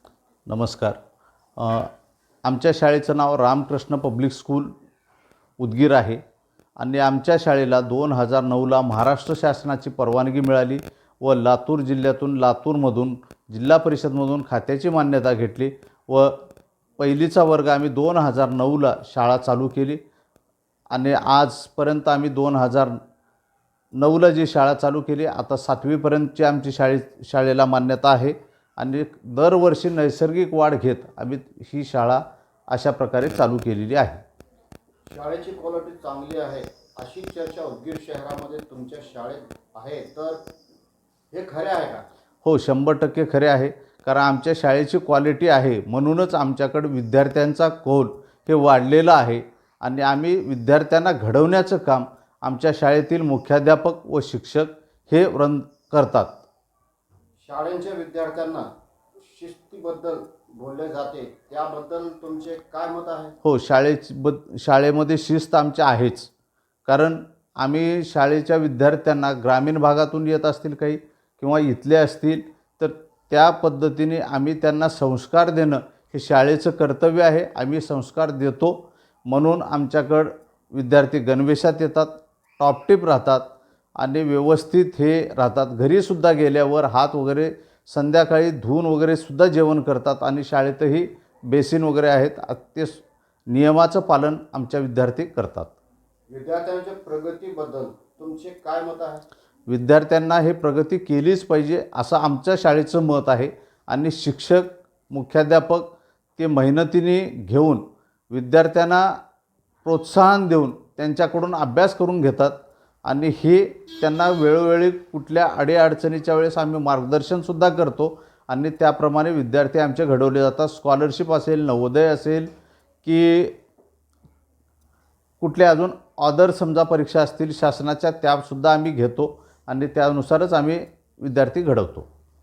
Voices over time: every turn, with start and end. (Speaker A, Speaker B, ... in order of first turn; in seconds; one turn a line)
Speaker A: 0.5-1.0
Speaker A: 1.6-1.9
Speaker A: 2.5-4.7
Speaker A: 5.6-6.2
Speaker A: 6.8-16.4
Speaker A: 17.0-20.0
Speaker A: 20.9-23.0
Speaker A: 24.0-34.2
Speaker B: 35.1-40.4
Speaker B: 41.3-42.0
Speaker A: 42.4-56.4
Speaker B: 57.4-63.4
Speaker A: 63.4-66.3
Speaker A: 66.9-83.5
Speaker A: 84.0-95.7
Speaker B: 96.3-99.2
Speaker A: 99.7-109.2
Speaker A: 109.8-112.5
Speaker A: 113.1-122.5
Speaker A: 123.0-123.6
Speaker A: 125.4-132.1